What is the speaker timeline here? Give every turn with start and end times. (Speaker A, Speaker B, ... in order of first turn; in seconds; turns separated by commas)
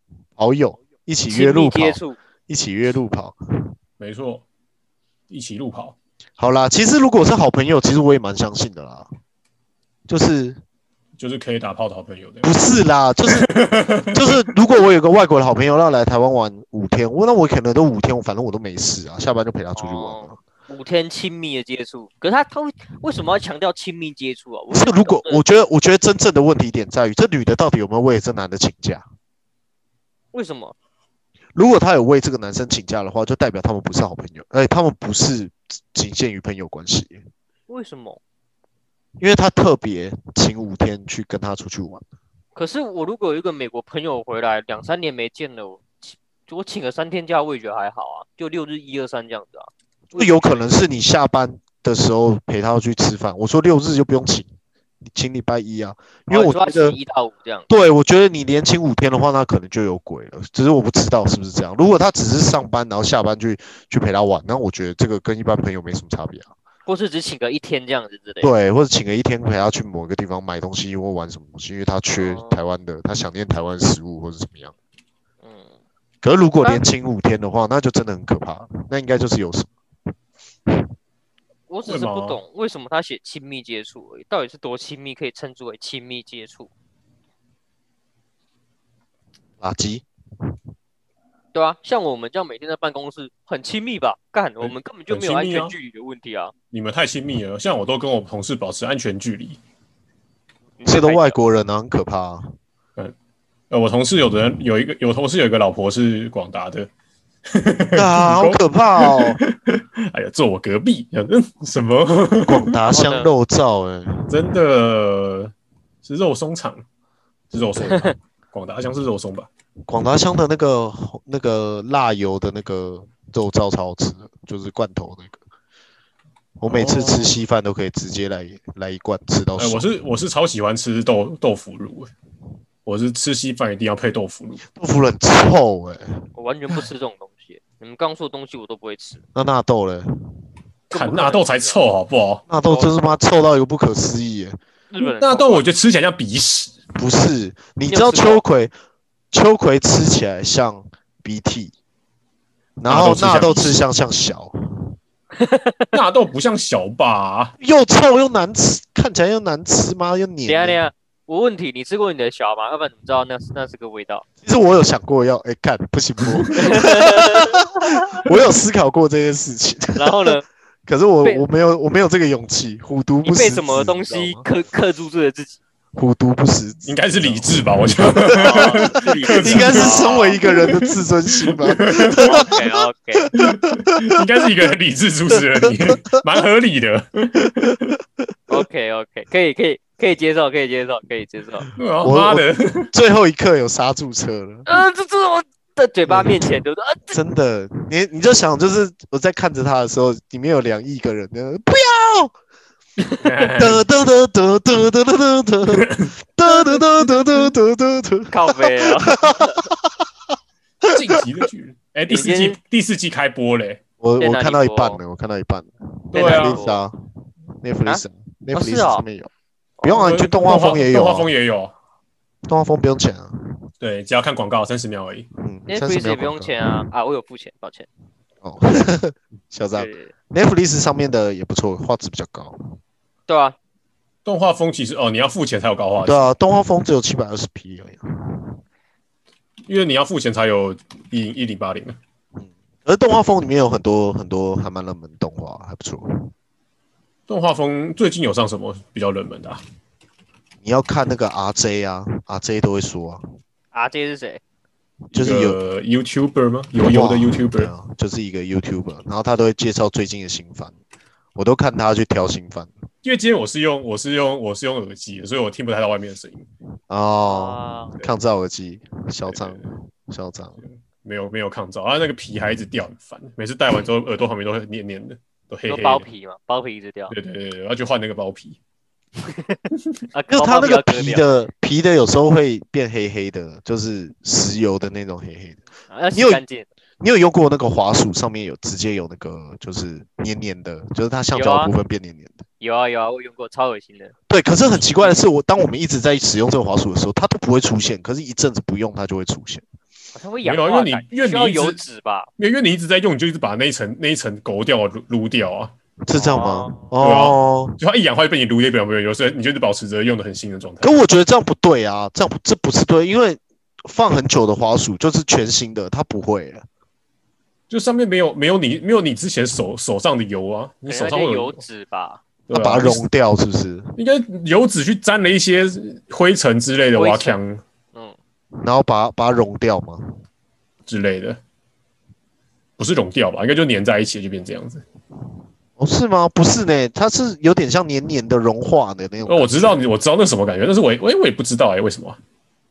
Speaker A: 0.4-3.7, Speaker B: 1.3-2.2, Speaker C: 4.0-4.4, Speaker C: 5.3-5.9, Speaker A: 6.4-9.1, Speaker A: 10.1-10.6, Speaker C: 11.2-12.5, Speaker A: 12.4-13.5, Speaker C: 13.3-14.5, Speaker A: 14.1-20.4, Speaker B: 19.8-25.4, Speaker A: 24.7-29.0, Speaker B: 30.3-30.7, Speaker A: 31.5-37.2, Speaker B: 37.7-38.2, Speaker A: 39.2-42.0, Speaker B: 42.5-50.6, Speaker A: 50.1-54.5, Speaker A: 55.0-57.0, Speaker B: 56.3-57.7, Speaker A: 57.7-66.5, Speaker B: 66.8-68.5, Speaker A: 68.4-74.7, Speaker B: 72.1-72.6, Speaker B: 75.4-75.7, Speaker A: 76.2-79.7, Speaker B: 81.7-86.7, Speaker C: 81.8-82.4, Speaker A: 89.6-90.0, Speaker B: 91.5-96.5, Speaker C: 94.6-95.7, Speaker C: 96.7-99.6, Speaker B: 100.8-101.4, Speaker A: 100.8-102.5, Speaker C: 103.7-106.9, Speaker C: 107.5-112.7, Speaker A: 107.9-109.4, Speaker A: 112.4-114.3, Speaker B: 112.9-113.3, Speaker C: 114.3-115.5, Speaker C: 116.0-116.8, Speaker C: 117.5-119.5, Speaker B: 117.8-118.1, Speaker A: 119.9-125.4, Speaker A: 126.6-129.9, Speaker C: 126.7-127.3, Speaker C: 129.6-132.1, Speaker C: 132.8-134.6, Speaker A: 134.7-136.2, Speaker B: 136.3-139.2, Speaker A: 139.3-140.1, Speaker C: 140.9-142.4, Speaker B: 140.9-141.8, Speaker A: 142.5-144.6, Speaker B: 142.7-143.1, Speaker B: 144.9-145.6, Speaker C: 145.0-146.7, Speaker A: 146.9-148.7, Speaker B: 147.9-148.4, Speaker A: 149.3-151.7, Speaker A: 152.8-154.9, Speaker C: 152.9-153.8, Speaker B: 155.4-155.9, Speaker C: 155.9-157.5, Speaker A: 157.6-160.8, Speaker B: 160.5-164.2, Speaker A: 164.4-174.5, Speaker C: 166.2-166.6, Speaker B: 166.6-168.0, Speaker B: 170.0-170.4, Speaker B: 173.2-175.6, Speaker A: 175.9-178.8, Speaker C: 176.9-182.4, Speaker B: 178.3-180.4, Speaker A: 179.3-182.6, Speaker B: 182.2-183.3, Speaker C: 183.3-187.9, Speaker A: 185.3-185.8, Speaker B: 188.5-191.7, Speaker C: 191.8-192.9, Speaker A: 192.0-194.7, Speaker B: 194.7-197.2, Speaker A: 196.1-196.6, Speaker A: 197.1-202.3, Speaker C: 203.2-203.8, Speaker A: 203.6-210.0, Speaker C: 205.7-206.1, Speaker B: 208.3-209.5, Speaker C: 210.8-213.8, Speaker B: 212.1-212.6, Speaker A: 214.0-217.1, Speaker B: 214.2-215.0, Speaker B: 216.1-216.8, Speaker C: 216.1-216.6, Speaker A: 217.6-219.3, Speaker B: 218.5-219.0, Speaker A: 219.8-221.3, Speaker C: 219.8-221.7, Speaker A: 222.5-223.6, Speaker C: 223.8-225.3, Speaker A: 225.4-226.9, Speaker B: 225.7-227.9, Speaker A: 228.4-232.8, Speaker B: 229.7-230.1, Speaker B: 233.3-233.6, Speaker C: 234.2-236.3, Speaker A: 236.0-238.6, Speaker C: 239.7-242.0, Speaker A: 242.3-246.3, Speaker C: 247.3-249.6, Speaker A: 250.6-253.2, Speaker B: 253.7-254.4, Speaker A: 255.1-255.6, Speaker C: 255.1-257.7, Speaker A: 256.8-260.7, Speaker A: 261.4-262.8, Speaker C: 263.0-266.5, Speaker A: 266.9-270.6, Speaker B: 267.2-267.9, Speaker C: 269.3-269.7, Speaker C: 270.6-276.0, Speaker B: 275.7-277.1, Speaker C: 277.1-278.6, Speaker B: 279.2-279.6, Speaker B: 280.1-281.2, Speaker A: 280.3-285.6, Speaker B: 285.9-286.7, Speaker A: 286.1-286.4, Speaker A: 287.0-292.4, Speaker B: 291.3-291.7, Speaker B: 292.6-294.1, Speaker A: 294.3-299.6, Speaker B: 300.1-302.3, Speaker C: 300.4-301.8, Speaker C: 302.4-305.7, Speaker A: 306.0-307.8, Speaker B: 306.1-306.9, Speaker C: 307.0-311.0, Speaker A: 310.8-316.6, Speaker C: 317.7-321.6, Speaker B: 320.9-322.2, Speaker C: 322.5-323.0, Speaker A: 322.5-323.9, Speaker C: 324.0-327.6, Speaker B: 326.9-327.4, Speaker A: 328.6-330.1, Speaker C: 330.9-331.4, Speaker C: 332.8-334.8, Speaker A: 335.8-339.8, Speaker C: 339.2-342.2